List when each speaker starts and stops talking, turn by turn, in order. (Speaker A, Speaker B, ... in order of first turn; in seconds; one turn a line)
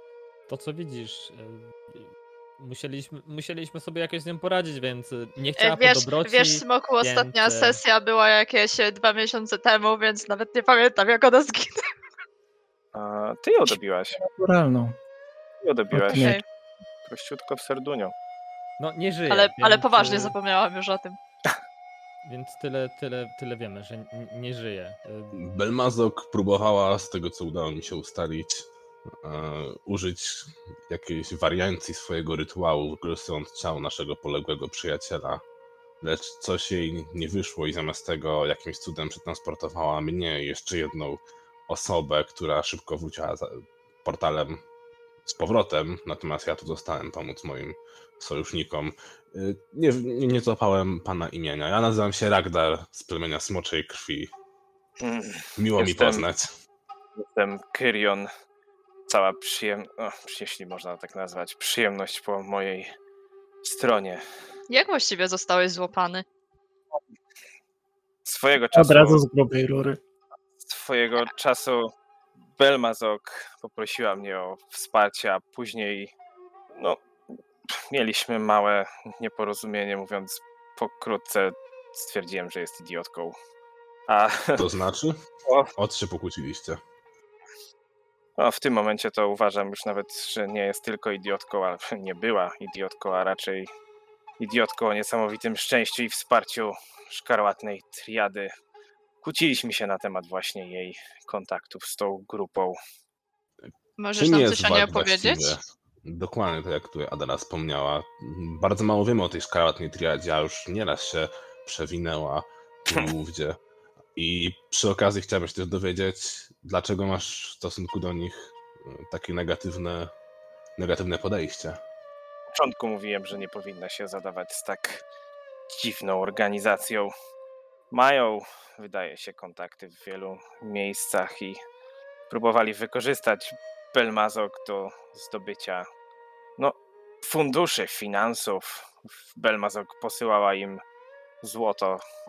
Speaker A: 0.5-7.8
Speaker B: 5.6-11.8
Speaker C: 12.9-14.2
Speaker D: 14.2-14.9
Speaker C: 15.6-16.3
Speaker D: 15.9-16.4
Speaker B: 16.1-16.4
Speaker C: 17.0-18.1
Speaker A: 18.8-20.4
Speaker B: 19.3-21.2
Speaker A: 22.2-25.4
Speaker E: 25.3-28.7
Speaker E: 29.2-35.4
Speaker E: 36.0-44.6
Speaker E: 45.2-54.3
Speaker C: 55.0-56.2
Speaker E: 55.6-56.5
Speaker C: 57.1-58.3
Speaker C: 59.1-62.9
Speaker C: 63.6-64.2
Speaker B: 64.7-66.2
Speaker C: 68.2-69.2
Speaker D: 68.7-70.0
Speaker C: 70.6-71.9
Speaker C: 72.6-76.1
Speaker C: 76.7-77.0
Speaker C: 77.9-83.3
Speaker C: 84.1-84.6
Speaker E: 84.6-85.2
Speaker C: 85.5-85.7
Speaker E: 85.8-86.8
Speaker C: 88.4-93.7
Speaker C: 94.4-98.5
Speaker C: 99.2-102.8
Speaker B: 104.0-105.5
Speaker E: 104.1-113.6
Speaker E: 114.2-120.1
Speaker E: 120.8-121.8
Speaker C: 122.5-125.0
Speaker C: 125.7-127.1
Speaker C: 127.9-131.6
Speaker C: 132.3-135.9
Speaker C: 136.6-140.8
Speaker C: 141.4-142.0